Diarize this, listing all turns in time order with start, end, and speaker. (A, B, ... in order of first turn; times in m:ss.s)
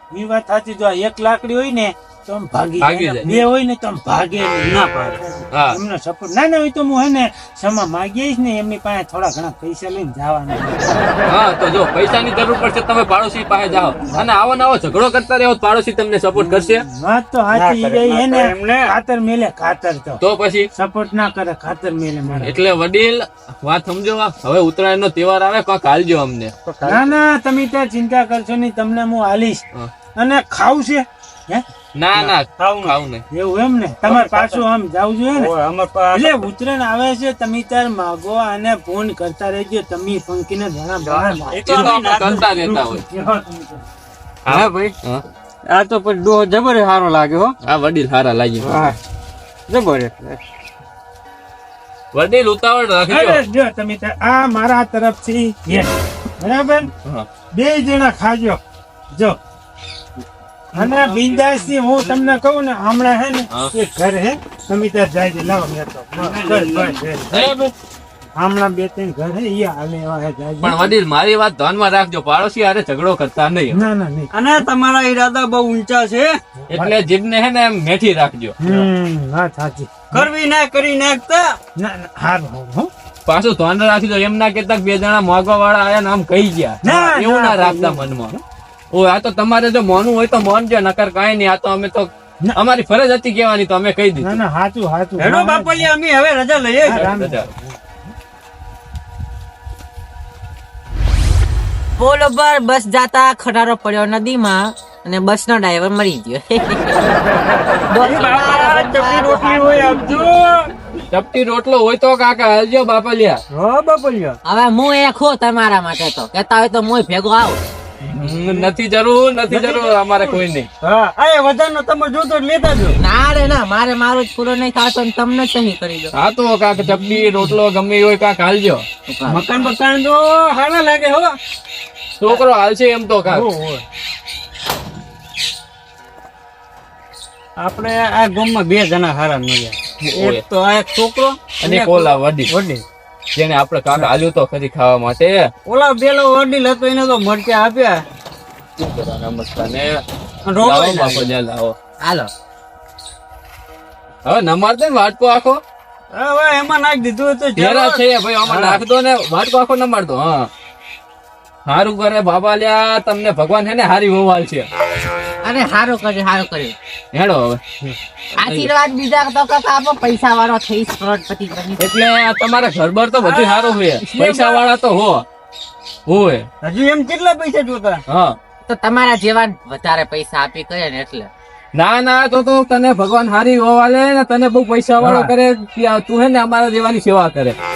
0:00.1-0:11.1 A
0:02.8-0:03.4 B
0:04.7-0:05.2 C
0:11.3-0:16.8 B
0:16.3-0:20.2 A
0:17.5-0:18.9 C
0:20.2-0:20.7 B
0:20.8-0:22.6 A
0:22.4-0:26.5 B
0:26.6-0:27.2 C
0:26.8-0:29.6 A
0:30.2-0:31.6 A
0:32.0-0:33.2 B
0:32.6-0:33.0 C
0:33.3-0:35.5 A
0:34.0-0:34.6 C
0:35.3-0:36.4 C
0:36.1-0:43.8 A
0:41.0-0:42.4 C
0:41.6-0:43.0 B
0:44.4-0:45.2 B
0:44.5-0:44.9 C
0:45.7-0:47.5 C
0:47.6-0:48.8 B
0:48.6-0:49.0 C
0:49.7-0:50.4 C
0:52.1-0:53.4 B
0:53.1-0:56.9 A
0:57.5-0:58.6 A
1:00.7-1:07.5 A
1:00.7-1:02.2 C
1:06.2-1:07.5 C
1:07.3-1:07.7 B
1:08.4-1:11.0 A
1:10.6-1:13.8 B
1:13.7-1:14.3 A
1:14.3-1:16.4 C
1:16.7-1:18.6 B
1:18.6-1:20.3 A
1:20.1-1:21.4 C
1:21.8-1:22.9 A
1:23.3-1:28.3 B
1:26.8-1:28.4 A
1:28.9-1:34.4 B
1:34.2-1:35.9 A
1:35.2-1:37.1 C
1:36.8-1:38.0 A
1:36.9-1:37.5 B
1:42.0-1:47.1 D
1:47.9-1:50.3 D
1:48.0-1:50.7 C
1:51.1-1:53.4 B
1:53.5-1:54.4 C
1:54.5-1:57.6 D
1:58.1-2:00.7 B
1:58.2-1:58.7 C
1:59.5-2:03.0 C
2:03.0-2:06.1 D
2:06.1-2:08.8 B
2:09.1-2:09.8 D
2:09.3-2:11.4 C
2:12.2-2:13.5 B
2:13.3-2:13.8 C
2:17.6-2:22.8 C
2:20.0-2:20.4 B
2:21.6-2:22.5 B
2:23.4-2:25.5 B
2:25.7-2:28.0 C
2:28.8-2:30.0 B
2:30.5-2:31.3 C
2:30.6-2:31.8 B
2:32.0-2:32.3 D
2:34.2-2:35.6 B
2:36.2-2:38.8 C
2:37.6-2:40.5 B
2:41.7-2:44.7 B
2:45.4-2:46.8 D
2:47.1-2:47.6 B
2:48.4-2:48.7 B
2:48.4-2:51.9 D
2:51.8-2:55.2 B
2:53.2-2:54.6 C
2:56.1-2:56.5 B
2:56.6-2:58.0 C
2:58.1-2:58.4 B
2:58.7-3:01.3 D
3:01.7-3:07.6 B
3:05.0-3:05.3 C